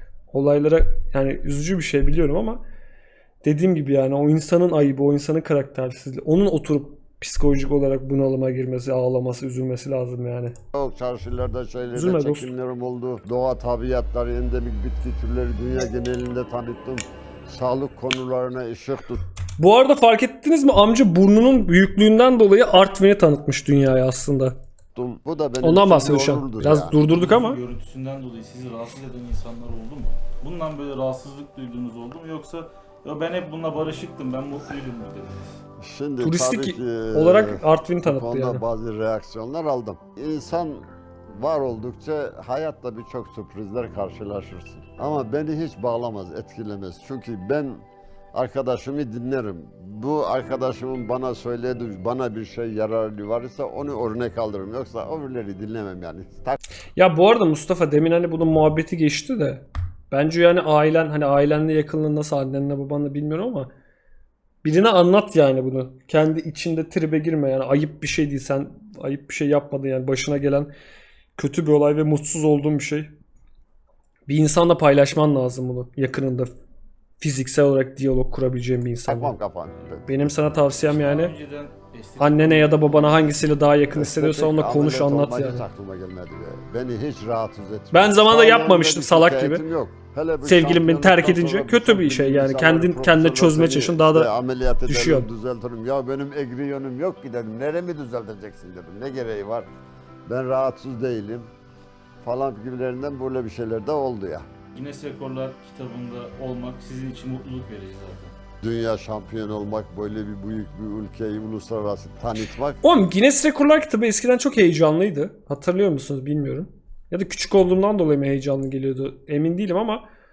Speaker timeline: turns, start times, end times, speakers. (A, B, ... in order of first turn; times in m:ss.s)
0:00.3-0:02.6 A
0:03.4-0:10.5 A
0:10.7-0:19.2 B
0:11.9-0:12.5 A
0:19.6-0:24.6 A
0:24.9-0:27.0 B
0:25.6-0:27.6 A
0:27.1-0:35.6 C
0:35.8-0:56.6 B
0:36.2-0:38.6 A
0:57.0-1:03.7 A
1:04.6-1:10.7 A
1:11.4-1:13.1 A
1:14.3-1:16.5 A
1:17.2-1:19.3 A
1:19.1-1:20.3 B
1:20.1-1:21.3 A
1:20.8-1:23.3 C
1:22.2-1:25.6 A
1:23.9-1:39.7 B
1:27.9-1:29.6 A
1:30.4-1:34.3 A
1:34.9-1:35.3 A
1:40.3-1:41.5 B
1:42.2-1:44.4 B
1:44.7-1:48.3 C
1:48.6-1:52.8 B
1:52.8-2:00.0 A